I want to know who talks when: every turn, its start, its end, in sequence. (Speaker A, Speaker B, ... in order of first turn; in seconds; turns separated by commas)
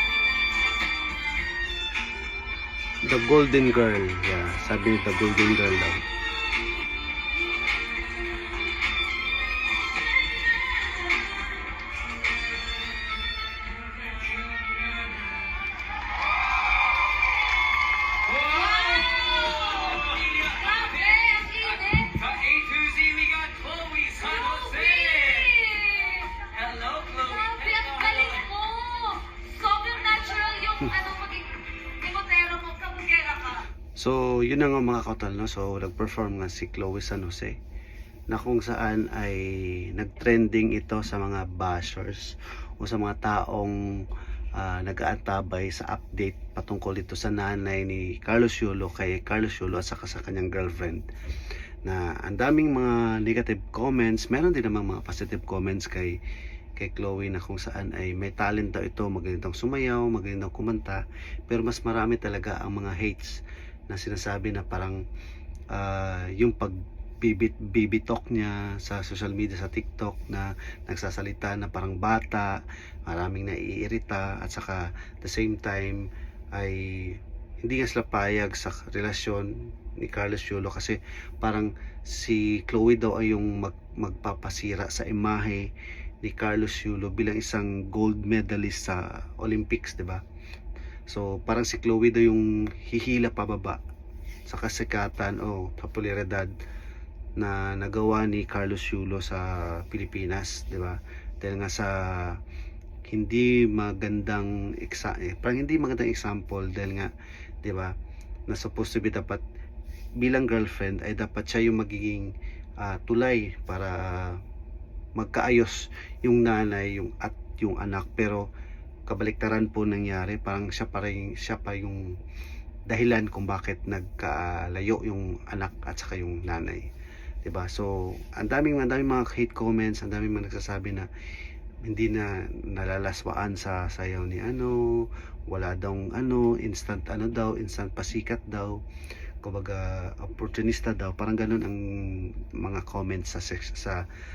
Speaker A: 3.0-6.0, Speaker B: 18.4-22.4, Speaker C: 20.2-20.8, Speaker C: 21.9-24.4, Speaker B: 24.2-31.5, Speaker C: 25.0-25.3, Speaker C: 26.5-28.3, Speaker C: 30.1-30.5, Speaker B: 32.0-33.5, Speaker C: 32.4-33.5, Speaker A: 34.0-37.5, Speaker A: 38.3-43.8, Speaker A: 44.6-51.0, Speaker A: 51.9-56.2, Speaker A: 56.8-65.0, Speaker A: 65.7-76.0, Speaker A: 76.5-85.7, Speaker A: 86.2-90.2, Speaker A: 91.1-93.8, Speaker A: 94.5-96.5, Speaker A: 97.4-102.4, Speaker A: 103.1-107.1, Speaker A: 107.6-107.9, Speaker A: 108.5-109.4, Speaker A: 110.2-114.4, Speaker A: 115.2-118.5, Speaker A: 119.1-122.1, Speaker A: 122.9-126.9, Speaker A: 127.4-131.1, Speaker A: 131.8-138.8, Speaker A: 139.4-144.0